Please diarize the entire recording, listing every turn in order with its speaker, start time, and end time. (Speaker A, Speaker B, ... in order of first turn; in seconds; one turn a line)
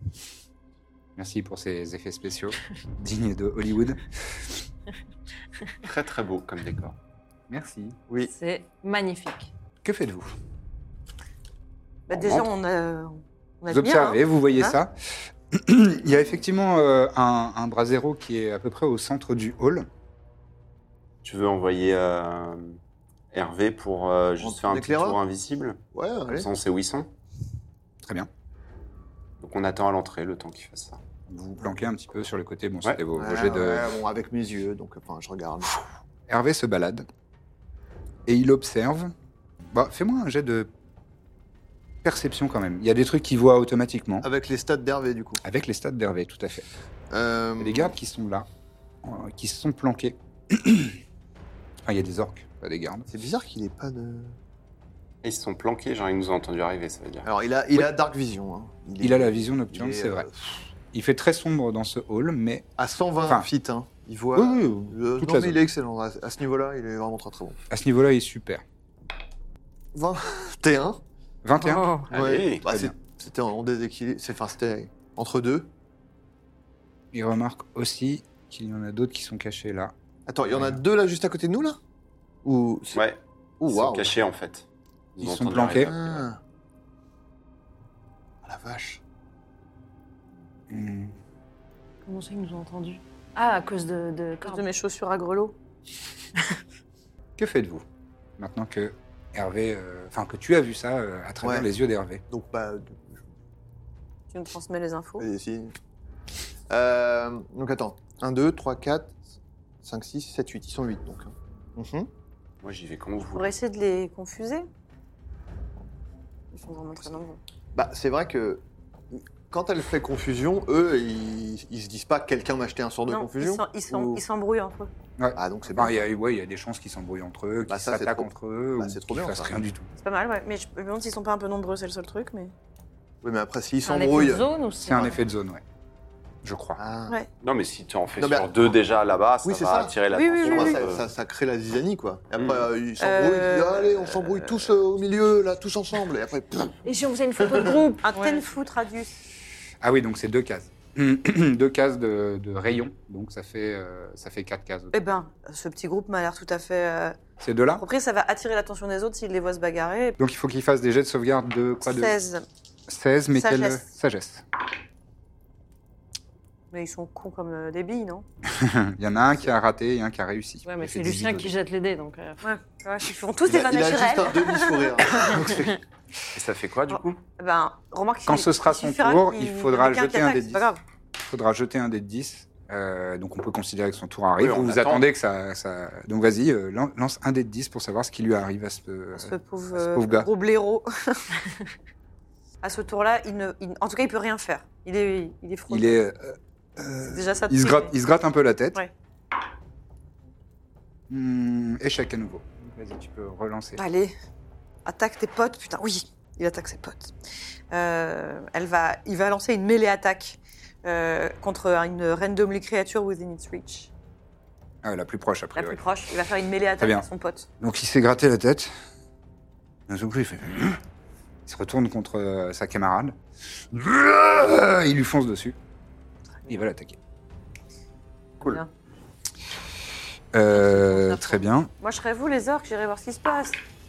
Speaker A: 1.2-4.1
Speaker B: 5.8-7.0
Speaker A: 7.5-8.0
Speaker C: 8.3-9.5
Speaker A: 9.8-10.3
Speaker D: 12.1-14.8
Speaker A: 13.7-15.0
Speaker A: 15.5-19.9
Speaker B: 21.2-22.8
Speaker B: 23.3-27.1
Speaker E: 24.4-25.2
Speaker E: 25.9-26.5
Speaker A: 28.0-28.3
Speaker B: 29.4-31.0
Speaker A: 31.3-33.9
Speaker E: 33.2-35.8
Speaker A: 36.3-37.1
Speaker A: 38.3-39.1
Speaker A: 39.7-40.7
Speaker A: 42.0-44.3
Speaker E: 44.2-45.4
Speaker A: 45.4-46.7
Speaker E: 47.1-47.9
Speaker A: 47.6-48.5
Speaker A: 49.0-51.0
Speaker A: 51.9-53.1
Speaker E: 53.1-54.4
Speaker B: 55.2-57.3
Speaker E: 57.2-60.5
Speaker A: 59.0-60.3
Speaker A: 60.9-62.6
Speaker E: 62.8-67.6
Speaker A: 63.2-63.5
Speaker A: 64.3-65.6
Speaker A: 67.7-68.6
Speaker E: 69.9-71.0
Speaker A: 71.4-71.9
Speaker C: 71.6-72.1
Speaker B: 72.1-72.6
Speaker E: 72.1-75.7
Speaker A: 72.7-72.9
Speaker A: 77.1-79.9
Speaker E: 80.3-81.8
Speaker A: 80.5-80.8
Speaker E: 82.4-83.0
Speaker B: 82.9-86.3
Speaker E: 83.6-84.1
Speaker A: 85.2-85.9
Speaker E: 85.8-86.4
Speaker E: 88.4-89.0
Speaker A: 90.7-91.2
Speaker C: 92.0-94.7
Speaker D: 94.4-95.6
Speaker A: 97.4-97.8
Speaker A: 98.4-102.2
Speaker E: 101.4-101.7
Speaker E: 102.3-103.2
Speaker D: 104.3-105.2
Speaker E: 105.2-105.8
Speaker E: 106.7-109.2
Speaker E: 109.8-112.1
Speaker B: 112.6-113.5
Speaker D: 113.2-114.7
Speaker D: 116.5-117.4
Speaker E: 117.7-124.2
Speaker D: 123.1-124.9
Speaker A: 125.2-129.9
Speaker E: 125.4-126.1
Speaker E: 127.7-129.6
Speaker D: 130.0-132.5
Speaker E: 133.2-134.5
Speaker C: 133.8-135.2
Speaker A: 134.8-135.6
Speaker A: 136.4-136.8
Speaker E: 136.8-137.2
Speaker B: 137.4-141.1
Speaker E: 138.2-138.6
Speaker E: 139.4-146.8
Speaker D: 140.1-140.8
Speaker B: 142.3-142.7
Speaker D: 143.0-144.3
Speaker C: 146.8-148.6
Speaker E: 147.4-147.8
Speaker D: 148.0-149.1
Speaker A: 149.8-155.0
Speaker D: 154.9-157.2
Speaker A: 157.4-157.8
Speaker D: 157.8-160.2
Speaker A: 160.2-162.2
Speaker D: 161.8-162.4
Speaker A: 162.9-164.4
Speaker D: 163.3-163.8
Speaker D: 166.7-168.2
Speaker A: 168.5-171.6
Speaker C: 170.6-172.4
Speaker D: 172.4-175.2
Speaker E: 173.4-175.7
Speaker B: 176.3-177.2
Speaker D: 176.9-180.8
Speaker A: 178.3-190.3
Speaker B: 184.4-185.1
Speaker D: 189.2-191.3
Speaker D: 192.6-196.0
Speaker A: 195.7-198.8
Speaker D: 197.1-197.9
Speaker A: 201.1-203.8
Speaker D: 203.8-204.1
Speaker D: 204.8-207.2
Speaker D: 207.7-213.9
Speaker A: 214.8-215.8
Speaker D: 215.6-217.5
Speaker A: 216.8-217.1
Speaker A: 217.6-218.7
Speaker A: 219.9-220.8
Speaker A: 221.5-223.2
Speaker A: 223.7-225.6
Speaker A: 226.5-227.0
Speaker A: 230.3-231.7
Speaker C: 230.5-231.5
Speaker D: 231.8-233.6